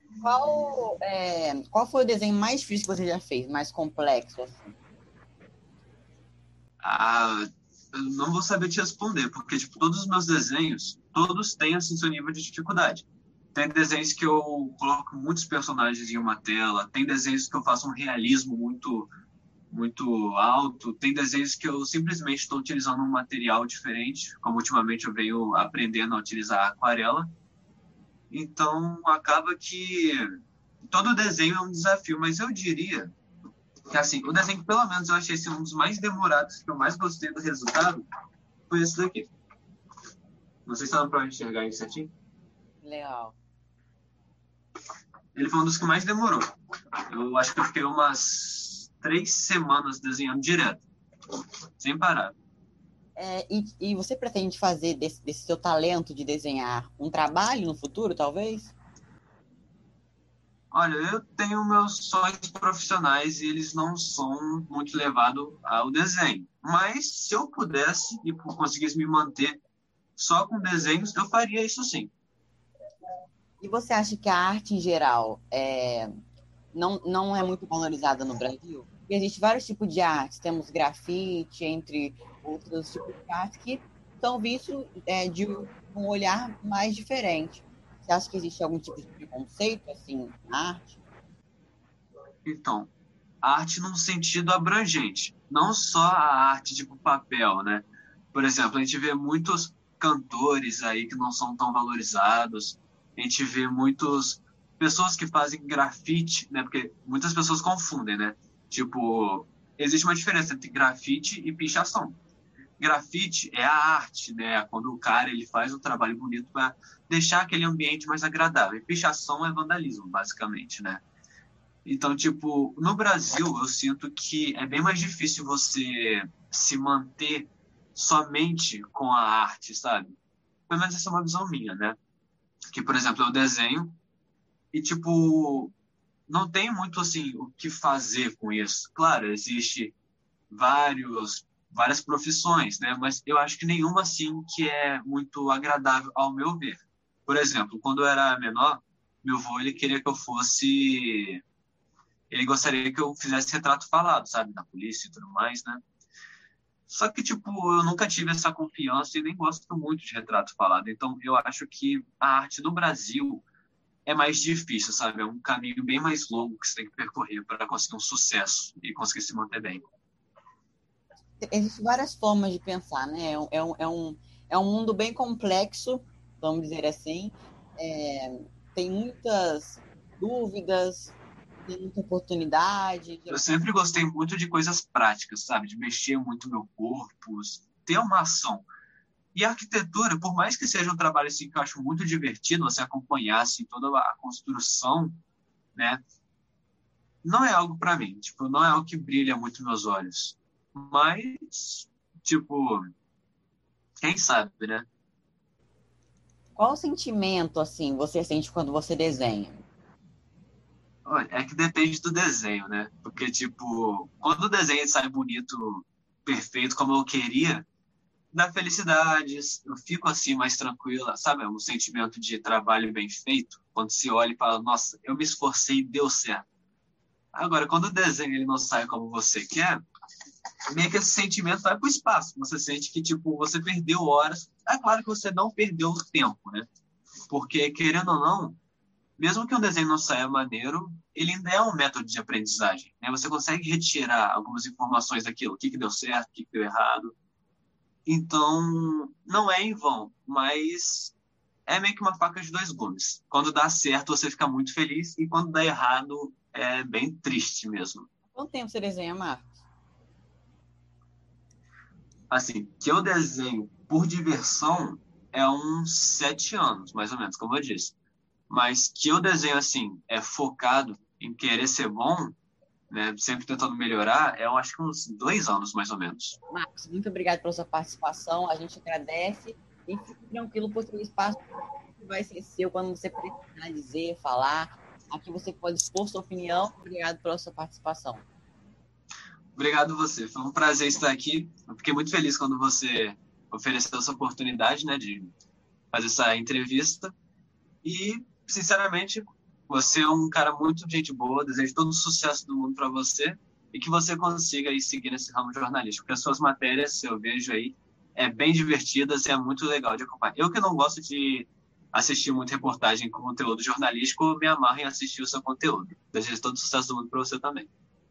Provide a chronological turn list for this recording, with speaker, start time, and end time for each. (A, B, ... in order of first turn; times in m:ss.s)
0:00.2-0:04.7 A
0:06.8-0:19.1 B
0:19.7-0:27.3 B
0:28.3-0:30.2 B
0:30.9-0:33.1 B
0:33.9-0:38.0 B
0:38.7-0:39.3 B
0:40.6-0:42.1 B
0:42.8-0:43.4 A
0:45.3-0:46.5 B
0:47.1-0:50.8 B
0:51.8-0:52.4 B
0:53.1-0:58.7 A
1:00.7-1:09.6 B
1:10.2-1:12.1 B
1:13.6-1:16.1 A
1:16.7-1:31.0 A
1:32.4-1:32.9 B
1:33.4-1:52.2 B
1:52.8-2:01.0 B
2:01.8-2:10.2 B
2:10.7-2:12.0 B
2:12.7-2:14.0 B
2:14.7-2:15.7 B
2:16.3-2:19.9 B
2:20.5-2:31.4 B
2:32.3-2:35.8 B
2:36.9-2:43.4 B
2:44.0-2:49.8 B
2:51.4-3:01.1 A
3:01.6-3:03.4 A
3:03.3-3:08.7 B
3:09.3-3:15.2 B
3:15.7-3:16.0 B
3:17.2-3:22.8 B
3:24.0-3:24.9 B
3:26.5-3:29.6 A
3:31.0-3:37.7 B
3:38.3-3:46.4 B
3:47.3-3:49.8 B
3:50.7-3:56.7 B
3:57.3-3:58.6 B
3:59.2-4:07.1 B
4:08.0-4:11.1 B
4:11.7-4:18.1 B
4:18.3-4:19.5 A
4:22.3-4:27.9 B
4:28.5-4:32.4 B
4:32.9-4:36.4 B
4:36.5-4:41.4 A
4:42.0-4:48.2 A
4:49.6-4:55.3 B
4:55.9-4:57.1 B
4:57.8-5:17.7 B